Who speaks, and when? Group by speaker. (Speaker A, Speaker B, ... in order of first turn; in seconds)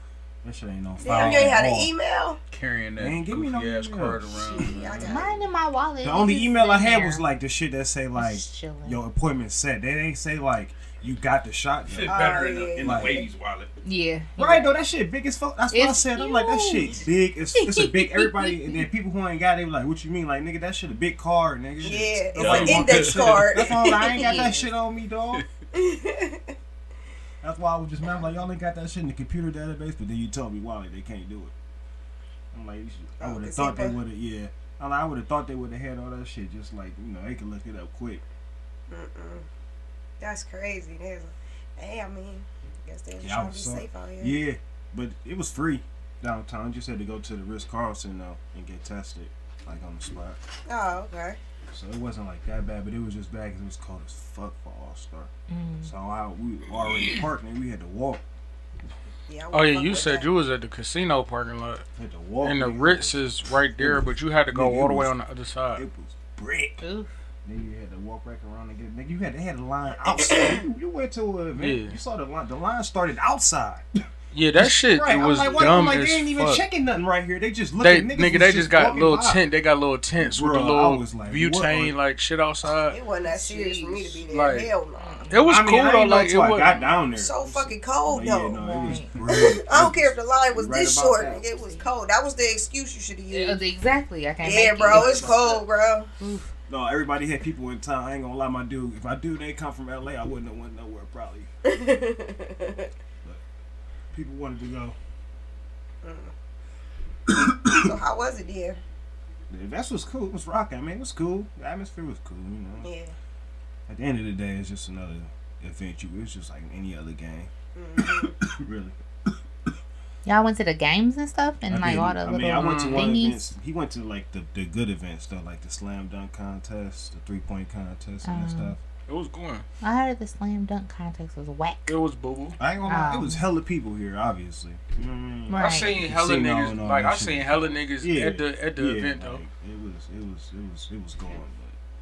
Speaker A: 0.4-1.9, 3.0-5.4, 6.0-13.2, 14.4-25.4, 27.4-31.5, 32.5-38.2, 43.2-50.4, 51.7-55.3, 55.8-58.2, 62.0-63.2, 63.8-65.1, 65.7-66.8, 67.4-73.9, 74.6-79.4, 80.2-81.9, 85.4-91.4, 94.9-95.6, 96.7-101.5, 104.1-105.0, 109.5-112.9, 113.9-119.0, 121.7-128.8, 132.6-141.8
Speaker B: 1.0-2.4, 4.4-5.4, 12.1-13.3, 21.8-24.3, 25.7-26.5, 33.2-34.0, 38.9-39.5, 40.2-44.4, 50.6-51.4, 59.3-60.3, 82.9-85.3, 87.1-93.6, 94.4-96.1, 101.7-102.9, 106.0-106.3, 107.7-108.8, 112.8-113.1, 117.7-118.3
Speaker C: 1.0-1.7, 2.5-5.1, 11.9-13.7, 22.3-23.7
Speaker D: 5.0-7.2, 8.1-9.0, 13.8-14.8, 15.7-17.0, 17.6-18.7, 23.8-24.7, 55.5-55.9, 66.8-67.1, 83.2-84.2, 85.0-85.5, 88.6-89.1, 91.6-91.8, 93.3-95.3, 96.2-96.5, 120.2-123.5, 128.2-128.8, 129.8-131.9, 132.9-133.4, 135.5-135.9
Speaker E: 59.5-61.8, 62.4-65.8, 71.5-72.0, 74.3-76.6, 77.8-83.0, 84.3-84.7, 85.3-86.8, 122.5-123.1, 129.1-129.6, 131.9-132.6, 135.5-139.4